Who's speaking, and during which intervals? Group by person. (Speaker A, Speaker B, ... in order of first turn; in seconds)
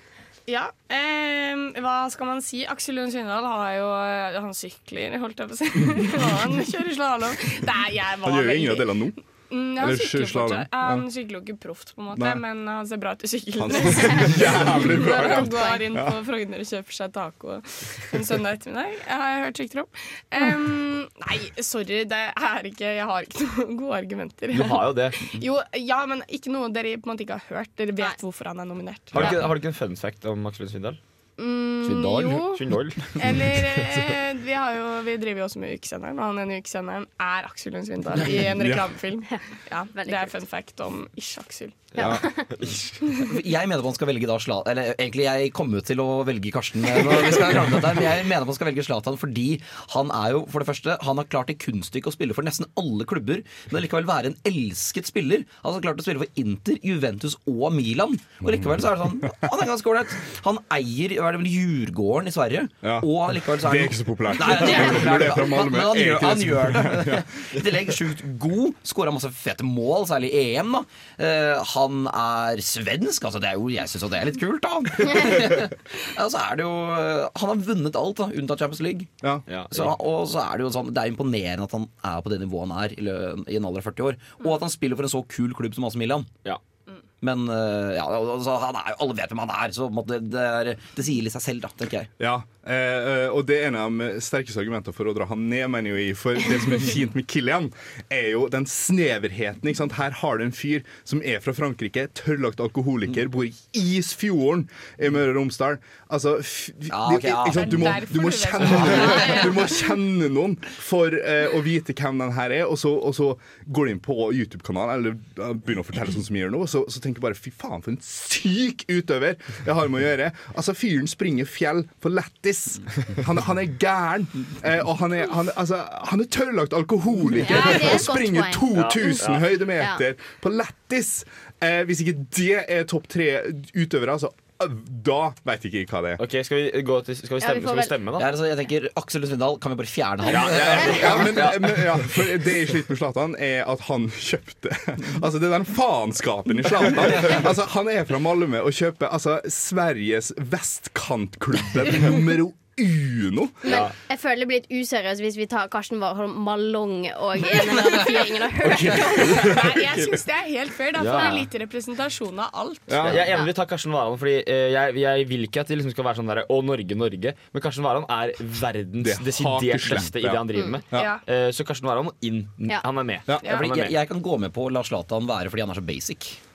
Speaker A: 0.5-29.4, 31.4-32.6, 33.1-42.4, 107.5-109.8, 158.9-163.1, 170.9-171.2
Speaker B: 5.9-6.4, 8.2-9.2, 9.8-11.0, 12.1-12.4, 13.6-16.2, 38.5-38.9, 58.4-59.3, 62.8-67.3, 92.2-136.2, 140.4-153.8, 158.6-160.2, 162.9-163.3, 169.0-171.1
Speaker C: 15.2-15.9, 39.3-40.4, 42.0-42.4, 127.4-129.2, 137.4-137.9, 153.6-159.6
Speaker D: 24.5-25.3, 29.1-31.0, 31.8-33.5, 42.0-42.9, 79.5-79.9, 128.7-129.5, 136.2-138.3, 140.2-142.2, 153.7-153.9, 161.0-161.5, 163.0-174.0
Speaker E: 43.3-79.1, 79.7-86.3, 87.2-92.1, 106.9-108.0, 138.2-141.5, 173.4-176.4